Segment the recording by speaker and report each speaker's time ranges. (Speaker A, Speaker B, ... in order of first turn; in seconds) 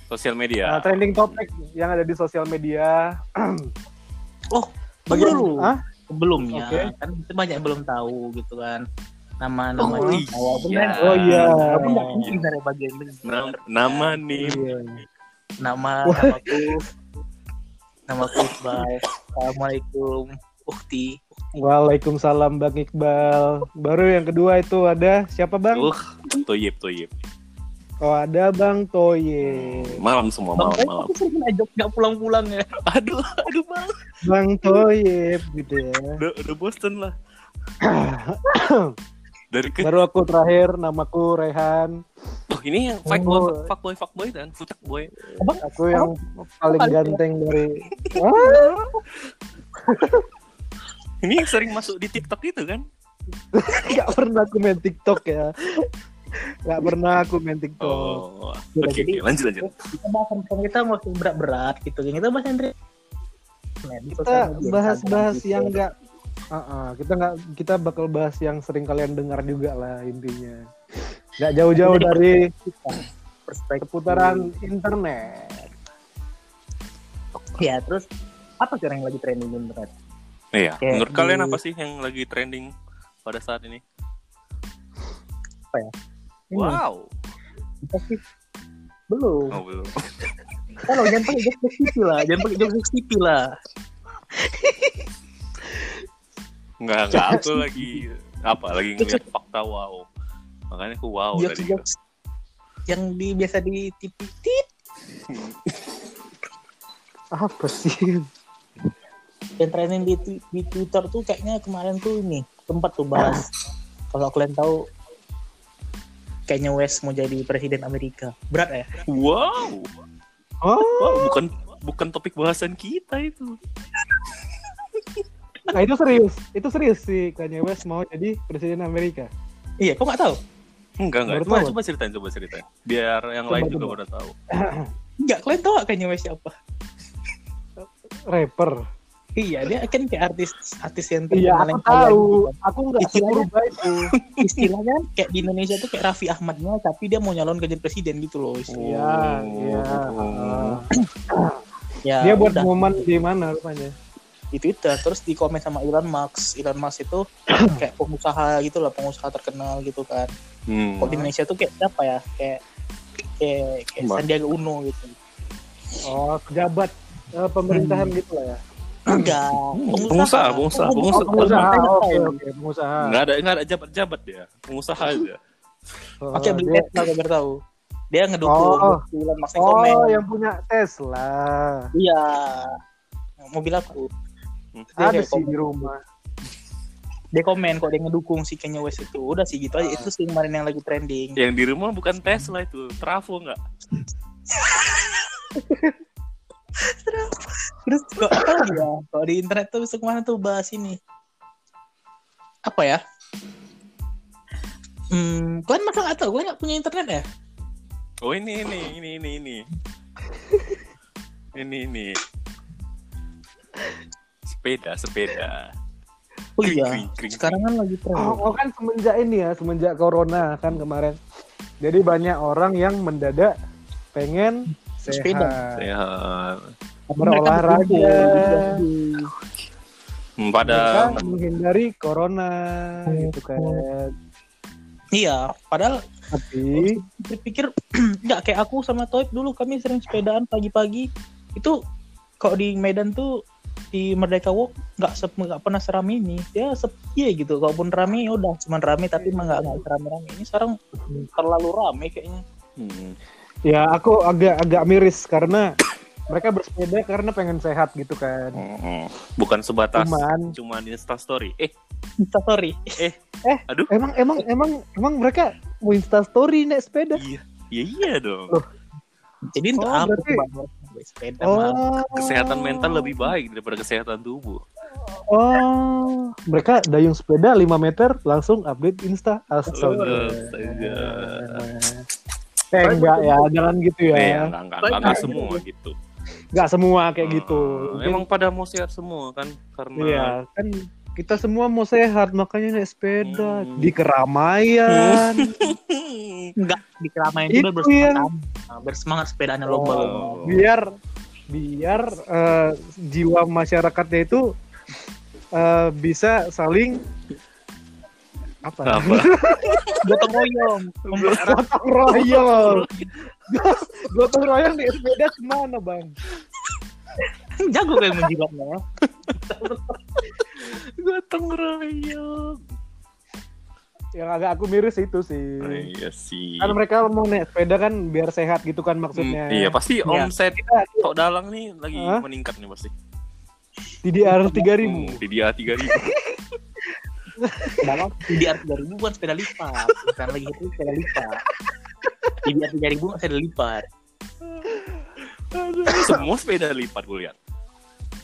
Speaker A: 0.1-1.4, 9.8-12.4, 13.2-14.6, 25.7-27.1, 29.4-31.1, 32.9-34.0, 36.2-37.2, 39.5-40.0, 42.5-45.2, 48.1-48.7, 51.2-52.8, 57.8-59.7, 80.5-82.7, 83.2-83.8, 86.5-87.1, 89.5-90.2, 96.8-100.1, 100.7-101.8, 105.3-105.6, 119.1-119.9, 120.9-123.6, 131.0-134.3, 144.2-144.6, 148.7-150.8, 160.7-161.2, 169.7-171.8, 173.0-175.4, 191.4-193.6, 208.2-209.7, 211.6-212.2, 214.5-215.7, 216.6-217.6, 225.8-226.7, 230.4-231.2, 252.8-253.2, 258.6-261.7, 263.0-263.9, 267.2-268.6, 272.1-274.6, 279.7-281.6, 284.1-285.9, 287.2-290.4, 293.2-293.9, 294.9-296.5, 299.9-300.6, 308.9-310.0, 311.2-311.4, 312.1-313.1, 320.4-322.6, 325.6-326.8, 329.1-332.9, 334.8-336.1, 345.2-347.4
Speaker B: 0.7-3.7, 5.1-5.8, 6.5-6.9, 9.8-10.2, 11.0-12.0, 14.4-15.0, 16.1-16.8, 21.6-25.9, 28.0-30.0, 34.2-36.2, 37.8-38.9, 39.8-41.9, 43.1-43.7, 45.6-48.8, 49.9-50.2, 53.5-55.9, 56.7-58.2, 64.1-65.9, 66.5-70.7, 71.4-72.5, 73.8-75.7, 94.4-95.0, 97.2-98.0, 107.3-108.2, 113.2-113.5, 120.6-121.4, 125.7-129.3, 131.3-131.8, 133.5-133.9, 134.5-134.9, 137.8-138.8, 141.3-144.1, 148.8-151.6, 152.2-153.9, 157.5-157.8, 166.0-168.6, 171.2-173.2, 176.2-176.9, 178.5-179.0, 179.6-181.9, 185.0-186.0, 189.8-190.1, 198.4-198.8, 210.5-210.8, 218.2-221.2, 221.8-223.5, 224.1-225.8, 227.2-228.8, 230.7-234.1, 236.3-237.0, 249.2-249.8, 253.7-255.7, 256.3-258.6, 259.9-260.5, 263.4-267.2, 269.8-270.4, 271.4-273.3, 275.3-282.1, 282.7-284.5, 285.0-285.4, 286.5-288.2, 290.0-295.7, 297.5-298.3, 299.7-300.9, 301.5-304.4, 305.6-307.0, 308.7-310.2, 311.2-312.9, 313.5-316.1, 324.2-325.9, 326.6-329.8, 330.6-331.1, 331.9-332.2, 334.0-335.2, 335.7-336.3, 337.4-338.0, 345.9-346.2
Speaker C: 4.5-8.8, 9.4-14.6, 15.6-16.9, 18.1-21.2, 30.6-32.8, 45.4-47.2, 58.8-62.7, 63.8-65.8, 71.8-74.5, 77.6-78.1, 78.6-79.9, 80.8-81.6, 86.5-86.8, 87.8-88.2, 89.1-89.5, 90.9-93.5, 101.4-101.9, 102.9-104.7, 109.6-113.5, 114.1-114.8, 116.5-118.9, 129.8-130.4, 135.2-136.5, 139.4-143.5, 144.4-148.8, 152.0-153.0, 154.6-160.3, 161.0-162.6, 163.4-165.2, 167.7-168.1, 169.1-172.4, 176.3-177.6, 178.1-180.2, 181.9-182.8, 183.5-184.1, 184.9-185.9, 187.3-191.4, 197.8-201.0, 202.7-203.0, 205.1-207.2, 216.6-218.5, 225.1-225.6, 227.1-229.3, 233.1-233.8, 235.2-235.9, 236.7-241.8, 242.4-243.3, 243.9-252.4, 262.2-262.9, 269.5-271.8, 279.7-280.2, 282.8-283.4, 284.8-285.6, 296.6-300.4, 310.0-311.6, 317.6-320.0, 334.2-334.6, 337.8-341.4, 342.4-343.9